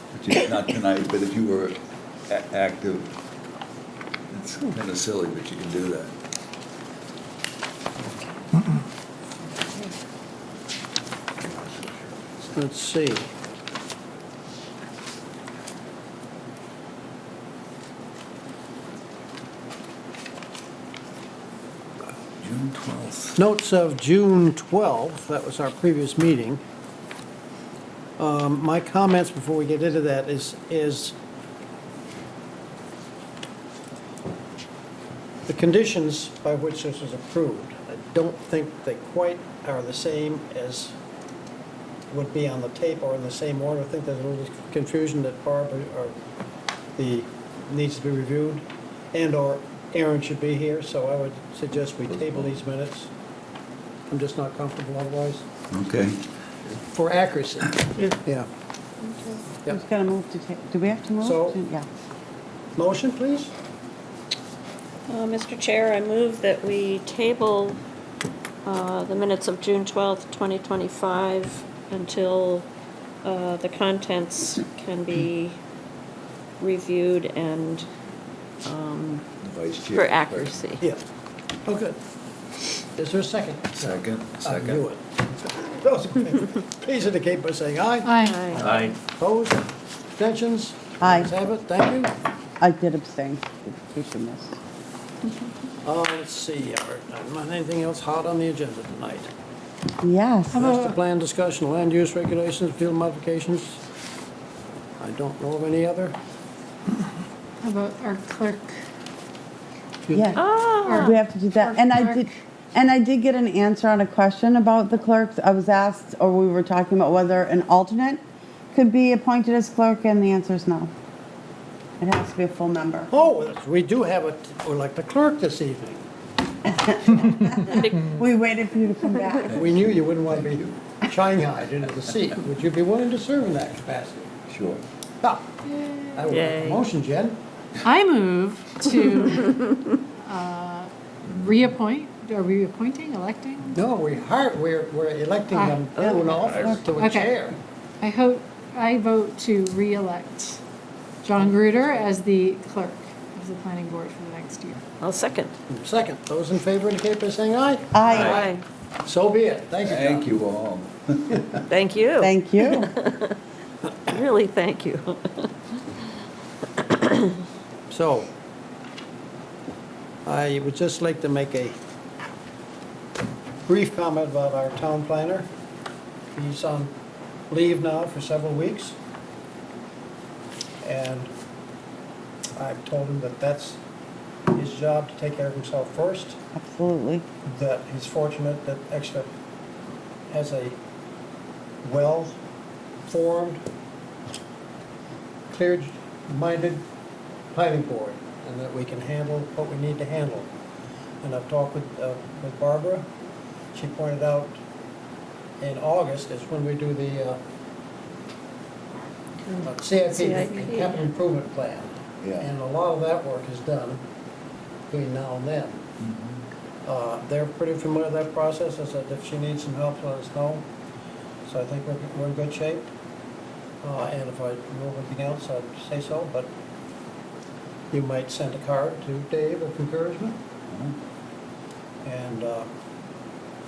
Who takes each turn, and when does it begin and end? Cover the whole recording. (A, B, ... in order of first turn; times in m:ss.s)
0:00.2-0:01.8 A
0:02.3-0:03.1 A
0:04.3-0:06.1 A
0:11.4-0:11.9 A
0:12.5-0:13.3 B
0:22.4-0:23.4 A
0:23.4-0:26.6 B
0:28.2-0:31.1 B
0:35.5-0:40.9 B
0:42.1-0:46.2 B
0:47.0-0:53.1 B
0:52.1-0:52.6 A
0:54.1-0:55.4 B
0:55.7-0:56.2 A
0:56.9-0:58.5 B
0:59.0-0:59.4 C
0:59.7-1:01.8 D
1:01.2-1:01.6 B
1:02.8-1:03.5 B
1:05.1-1:07.8 C
1:08.6-1:12.6 C
1:13.2-1:15.6 C
1:16.6-1:17.9 C
1:18.6-1:19.2 C
1:19.4-1:20.6 A
1:19.9-1:20.8 C
1:21.6-1:22.0 B
1:23.0-1:32.1 B
1:23.7-1:24.8 A
1:28.0-1:28.5 E
1:28.2-1:28.7 C
1:28.6-1:29.0 A
1:31.0-1:31.3 D
1:32.6-1:34.6 D
1:35.8-1:39.3 B
1:40.0-1:40.7 D
1:40.5-1:40.9 E
1:40.5-1:43.8 B
1:45.0-1:46.2 B
1:47.6-1:48.8 E
1:50.0-1:50.4 B
1:50.1-1:58.2 D
1:50.4-1:51.1 C
1:50.8-1:52.3 E
1:58.7-2:00.9 D
2:02.0-2:03.2 D
2:03.1-2:06.0 B
2:06.7-2:09.7 D
2:07.7-2:08.2 C
2:09.5-2:14.3 B
2:09.6-2:10.8 A
2:14.5-2:14.8 A
2:15.2-2:15.6 B
2:16.1-2:17.4 B
2:16.3-2:16.8 C
2:17.8-2:23.8 E
2:23.7-2:27.6 B
2:25.5-2:25.8 E
2:26.0-2:26.8 D
2:26.0-2:26.4 C
2:26.9-2:27.4 E
2:28.0-2:30.6 E
2:31.2-2:34.8 E
2:35.0-2:35.5 C
2:35.7-2:37.9 B
2:37.9-2:38.4 D
2:38.1-2:38.6 C
2:39.0-2:40.3 B
2:39.8-2:41.6 A
2:41.7-2:43.3 C
2:42.2-2:42.9 D
2:44.1-2:45.5 C
2:47.9-2:48.3 B
2:50.2-2:51.8 B
2:53.7-2:55.5 B
2:56.3-2:56.9 B
2:57.5-2:59.0 B
3:00.8-3:01.3 B
3:02.6-3:03.8 B
3:04.5-3:06.4 B
3:06.5-3:07.2 D
3:07.4-3:09.3 B
3:10.3-3:10.8 B
3:11.8-3:12.4 B
3:13.1-3:13.6 B
3:15.5-3:16.8 B
3:17.5-3:20.5 B
3:21.2-3:23.0 B
3:23.7-3:24.6 B
3:25.6-3:27.4 B
3:29.5-3:31.0 C
3:29.6-3:34.0 B
3:32.2-3:32.5 A
3:34.9-3:35.8 B
3:36.0-3:36.4 A
3:36.8-3:40.6 B
3:41.4-3:42.9 B
3:43.8-3:46.5 B
3:47.9-3:50.4 B
3:50.7-3:51.0 A
3:52.0-3:52.7 B